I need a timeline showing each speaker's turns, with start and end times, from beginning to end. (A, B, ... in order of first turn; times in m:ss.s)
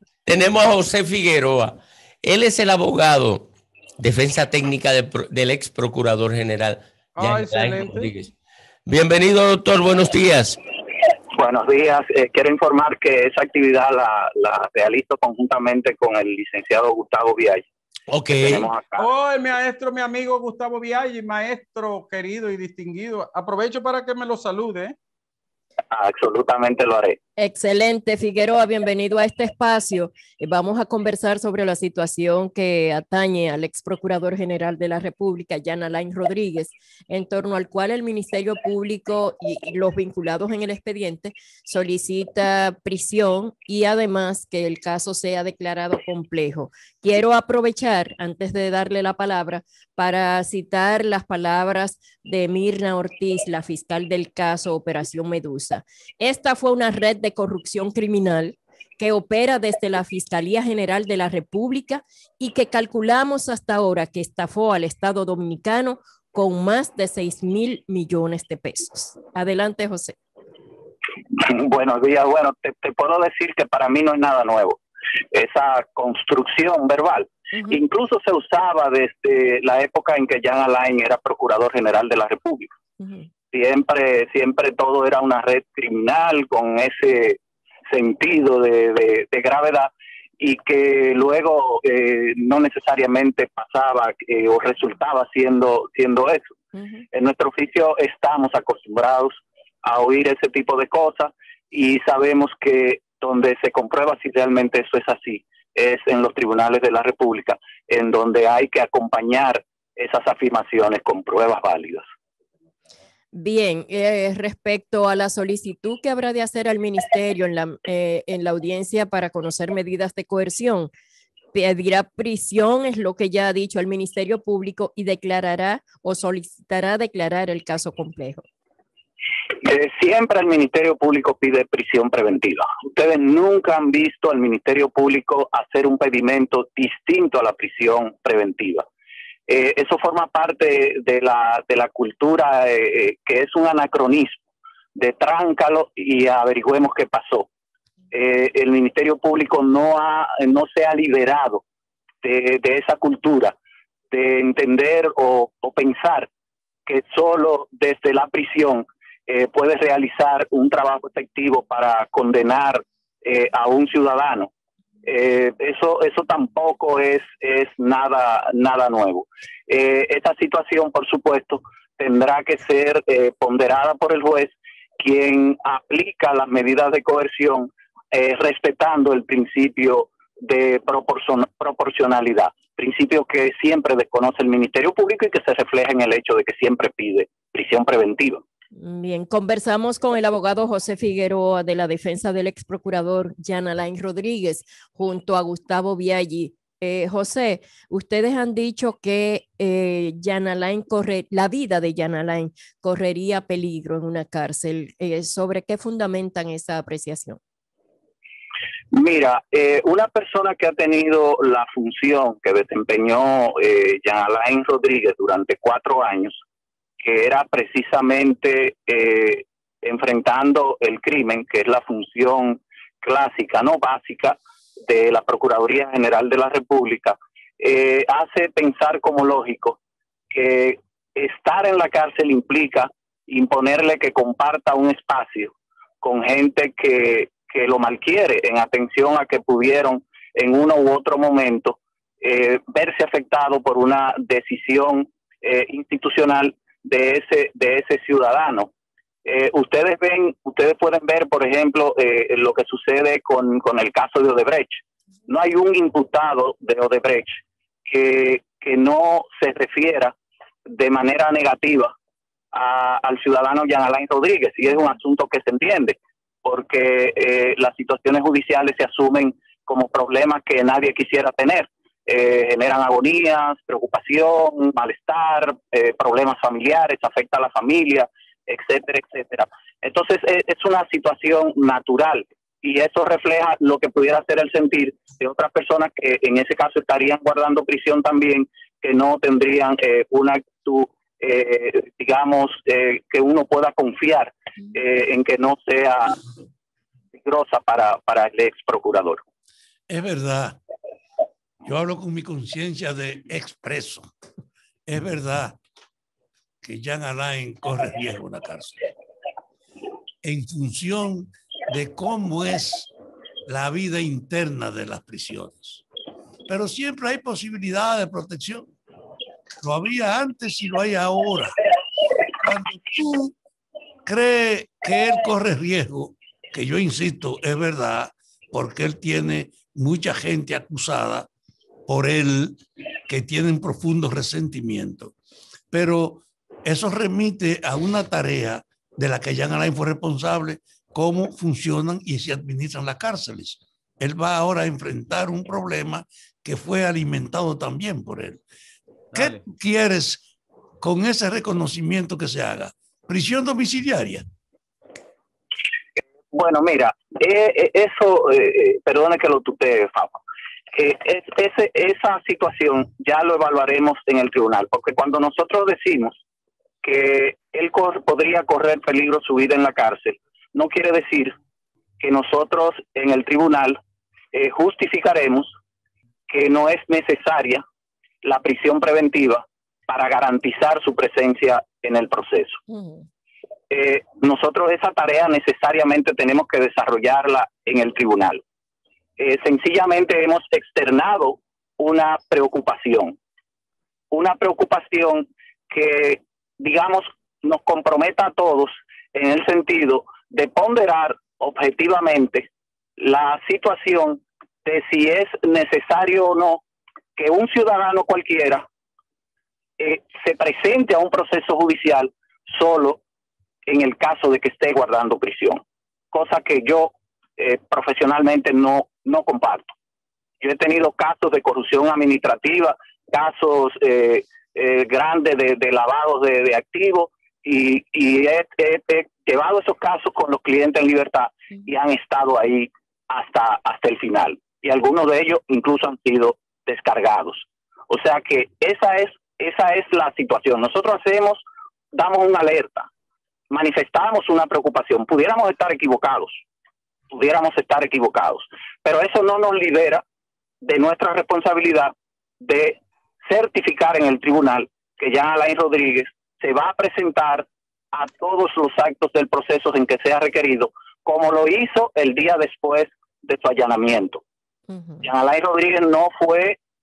0:00.2-0:08.3 A
0:07.2-0:08.1 B
0:08.8-0:10.6 A
0:11.3-0:17.6 C
0:18.1-0:18.7 A
0:18.3-0:19.1 C
0:18.9-0:25.0 B
0:25.9-0:27.2 C
0:27.4-1:10.2 D
1:11.3-1:14.8 C
1:15.3-1:22.7 C
1:23.5-1:36.4 C
1:37.1-1:52.0 C
1:53.3-2:00.9 D
2:01.5-2:08.4 D
2:09.6-2:18.8 C
2:19.5-2:24.4 C
2:24.9-2:27.5 C
2:28.1-2:31.6 C
2:32.2-2:33.6 C
2:34.1-2:36.3 C
2:36.9-2:44.5 C
2:45.0-3:08.4 C
3:08.8-3:27.4 D
3:28.9-3:36.4 C
3:37.0-3:49.8 C
3:50.3-4:08.7 C
4:09.2-4:20.1 C
4:20.7-4:21.9 C
4:22.5-4:56.2 C
4:57.1-4:59.2 C
4:59.9-5:00.6 E
5:01.6-5:04.1 E
5:04.9-5:05.6 E
5:06.6-5:08.8 E
5:10.2-5:12.9 E
5:13.5-5:15.8 E
5:16.5-5:18.7 E
5:19.6-5:21.6 E
5:22.4-5:23.3 E
5:24.0-5:31.3 E
5:31.9-5:35.1 E
5:35.7-5:48.4 E
5:49.1-5:49.4 A
5:49.1-5:50.3 E
5:50.8-5:54.2 E
5:56.3-6:00.2 C
6:00.7-6:06.2 C
6:06.8-6:11.4 C
6:12.0-6:13.8 C
6:14.3-6:15.5 C
6:16.3-6:17.6 C
6:18.2-6:22.6 C
6:22.7-6:23.0 D
6:23.7-6:28.4 C
6:29.2-6:33.2 C
6:34.1-6:46.6 C
6:47.2-6:48.6 C
6:49.8-6:53.0 C
6:53.6-6:59.7 C
7:00.4-7:21.4 C
7:21.9-7:22.9 C
7:23.5-7:26.4 C
7:27.1-7:30.0 C
7:30.6-7:44.2 C
7:44.7-7:45.0 D
7:45.0-7:46.6 C